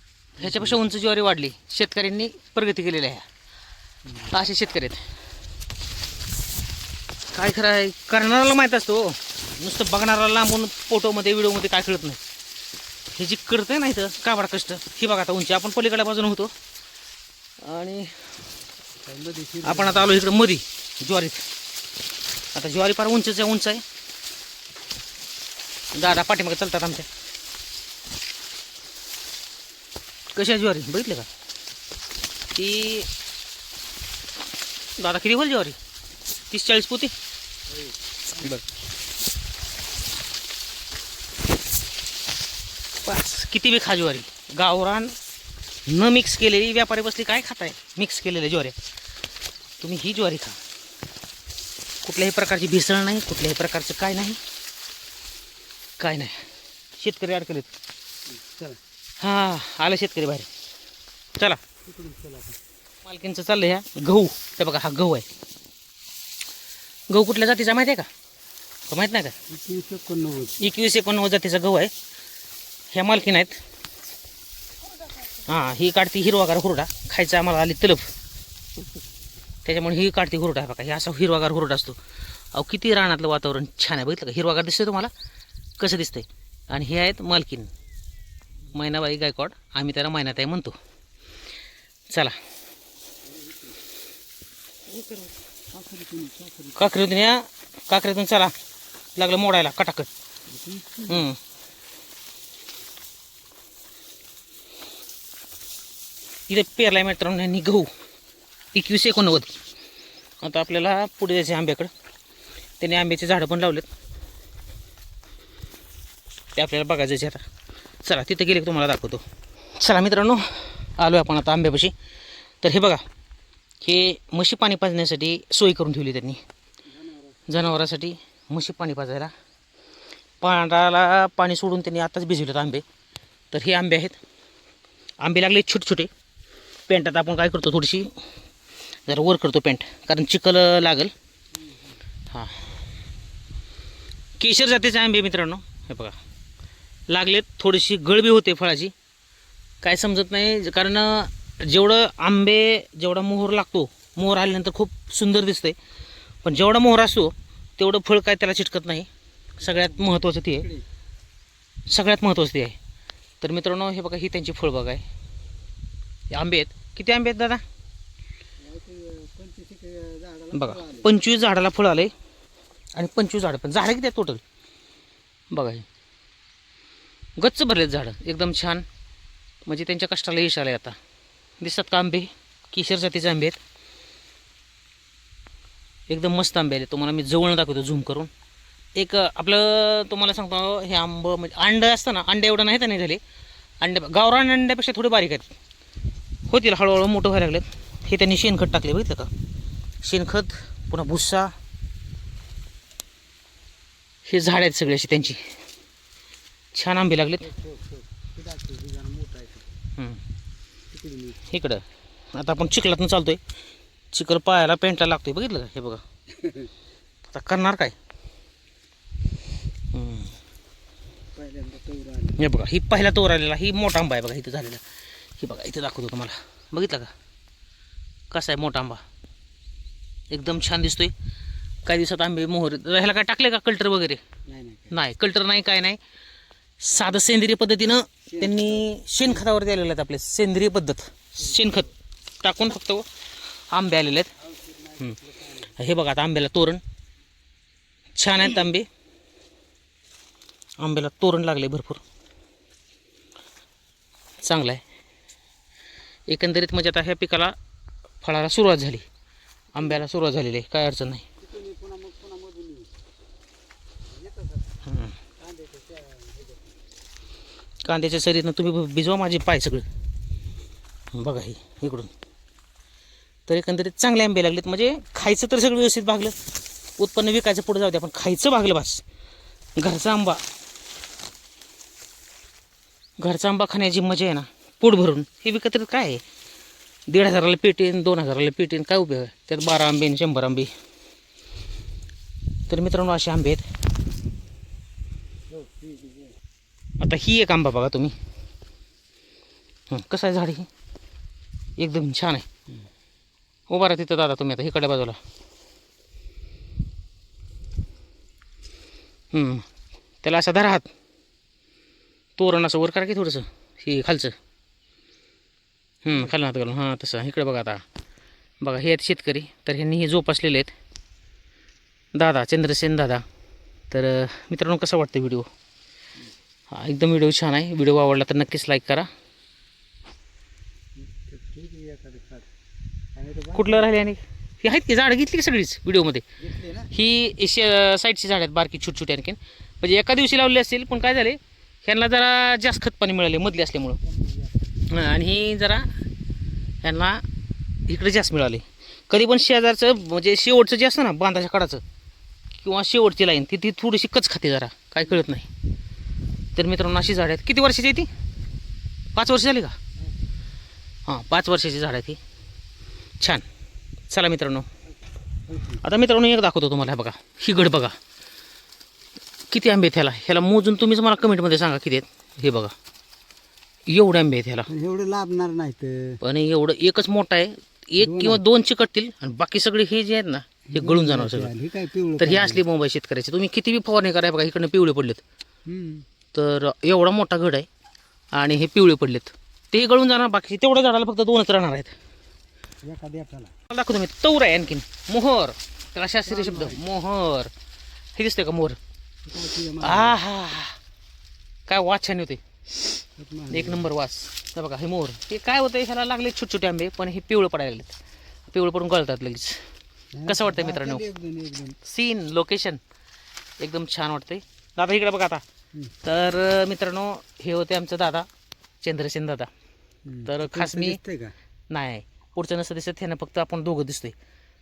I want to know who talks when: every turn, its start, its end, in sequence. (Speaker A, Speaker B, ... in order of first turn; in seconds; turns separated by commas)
Speaker A: 0.4-0.8, Speaker B: 0.4-3.2, Speaker A: 4.1-4.3, Speaker B: 4.3-5.0, Speaker B: 7.3-12.2, Speaker B: 13.1-16.5, Speaker B: 17.6-18.3, Speaker A: 19.0-20.1, Speaker B: 19.6-21.4, Speaker B: 22.5-23.8, Speaker B: 25.9-27.1, Speaker B: 30.3-31.3, Speaker B: 32.5-33.1, Speaker B: 35.0-35.8, Speaker B: 36.5-37.1, Speaker B: 38.4-38.6, Speaker B: 43.0-45.1, Speaker B: 45.9-48.8, Speaker B: 49.8-50.6, Speaker B: 52.0-54.4, Speaker B: 56.0-56.4, Speaker B: 57.0-57.7, Speaker A: 58.3-58.8, Speaker B: 59.2-60.5, Speaker A: 61.8-62.6, Speaker B: 63.0-65.2, Speaker B: 67.1-68.1, Speaker B: 68.9-69.3, Speaker A: 69.5-70.6, Speaker B: 70.6-71.9, Speaker B: 72.9-73.6, Speaker B: 75.4-78.1, Speaker B: 79.6-82.0, Speaker B: 82.5-85.1, Speaker B: 85.8-87.7, Speaker B: 88.7-90.8, Speaker B: 92.1-92.4, Speaker A: 93.2-93.8, Speaker A: 95.7-97.0, Speaker B: 96.8-98.5, Speaker B: 99.2-100.1, Speaker A: 100.5-101.3, Speaker B: 101.1-101.4, Speaker B: 106.5-107.9, Speaker B: 108.7-109.5, Speaker B: 110.4-111.9, Speaker B: 112.8-113.9, Speaker B: 116.5-117.4, Speaker B: 118.0-119.2, Speaker B: 119.8-121.9, Speaker B: 122.6-123.0, Speaker B: 123.8-126.4, Speaker A: 126.9-127.7, Speaker B: 127.5-129.3, Speaker B: 130.4-132.8, Speaker B: 133.5-134.2, Speaker B: 135.2-136.1, Speaker B: 136.9-138.1, Speaker B: 139.1-141.1, Speaker A: 141.6-142.0, Speaker B: 142.3-142.7, Speaker B: 144.4-146.2, Speaker B: 147.1-148.9, Speaker B: 149.8-155.8, Speaker B: 156.4-159.1, Speaker B: 159.6-160.7, Speaker A: 159.6-160.8, Speaker B: 161.9-162.8, Speaker B: 163.4-165.0, Speaker B: 166.3-167.6, Speaker A: 168.6-171.1, Speaker B: 170.5-172.1, Speaker B: 172.9-174.4, Speaker B: 175.5-175.8, Speaker B: 177.4-178.8, Speaker B: 179.7-181.0, Speaker B: 181.6-183.6, Speaker B: 186.1-188.3, Speaker B: 188.9-193.2, Speaker B: 193.8-195.5, Speaker B: 196.5-199.3, Speaker B: 200.0-201.5, Speaker B: 204.3-205.4, Speaker B: 206.7-207.5, Speaker A: 207.4-209.7, Speaker B: 210.0-210.2, Speaker A: 210.9-211.4, Speaker B: 211.5-213.4, Speaker B: 214.1-216.0, Speaker A: 216.3-216.7, Speaker B: 217.3-217.9, Speaker B: 219.9-220.3, Speaker A: 221.3-222.5, Speaker B: 222.4-224.8, Speaker B: 225.4-227.1, Speaker B: 228.3-229.0, Speaker B: 230.3-231.1, Speaker B: 231.8-234.2, Speaker A: 234.5-234.9, Speaker B: 234.9-236.0, Speaker B: 236.8-243.1, Speaker A: 238.3-239.4, Speaker B: 243.7-244.3, Speaker A: 244.4-245.8, Speaker B: 245.0-246.8, Speaker B: 248.2-248.9, Speaker B: 250.8-252.0, Speaker B: 254.4-254.8, Speaker B: 256.3-257.6, Speaker B: 258.2-259.1, Speaker B: 259.7-261.2, Speaker A: 259.8-260.1, Speaker A: 261.4-262.9, Speaker A: 264.1-264.8, Speaker B: 264.8-265.2, Speaker A: 265.4-266.8, Speaker B: 267.8-269.9, Speaker B: 271.1-272.1, Speaker B: 273.5-276.4, Speaker B: 277.0-279.0, Speaker B: 279.8-280.4, Speaker B: 283.2-286.2, Speaker B: 287.1-290.7, Speaker B: 292.7-293.7, Speaker A: 295.5-296.3, Speaker B: 297.0-298.1, Speaker B: 299.9-300.7, Speaker B: 301.8-302.5, Speaker B: 303.7-305.2, Speaker B: 309.3-309.7, Speaker B: 310.2-310.9, Speaker B: 312.4-314.4, Speaker B: 316.1-317.8, Speaker B: 318.6-320.7, Speaker B: 322.1-323.2, Speaker B: 323.9-325.5, Speaker B: 326.7-329.1, Speaker A: 331.0-332.5, Speaker A: 333.1-333.9, Speaker B: 333.5-336.2, Speaker A: 336.4-336.9, Speaker B: 336.9-344.0, Speaker A: 344.0-344.9, Speaker B: 344.9-345.9, Speaker B: 346.8-347.2, Speaker B: 347.9-351.8, Speaker B: 352.6-355.5, Speaker B: 356.6-358.1, Speaker B: 359.1-359.8, Speaker B: 361.1-362.2, Speaker B: 364.1-364.7, Speaker A: 365.5-365.8, Speaker B: 365.8-367.9, Speaker B: 369.5-372.7, Speaker B: 373.9-374.7, Speaker A: 374.7-376.2, Speaker B: 376.2-381.5, Speaker A: 378.0-378.4, Speaker A: 380.7-382.6, Speaker B: 382.2-385.2, Speaker A: 385.7-386.1, Speaker B: 386.3-387.7, Speaker B: 388.3-391.9, Speaker A: 392.8-393.5, Speaker B: 393.7-397.5, Speaker A: 396.3-396.8, Speaker B: 398.2-398.8, Speaker A: 399.3-400.2, Speaker B: 399.8-400.8, Speaker B: 401.7-402.4, Speaker A: 403.2-403.9, Speaker B: 403.5-407.9, Speaker B: 408.5-409.6, Speaker A: 410.1-411.8, Speaker B: 410.3-411.0, Speaker B: 411.8-412.8, Speaker B: 413.6-415.4, Speaker B: 416.0-418.3, Speaker B: 418.8-419.5, Speaker A: 420.1-421.3, Speaker B: 420.2-421.0, Speaker B: 421.7-424.1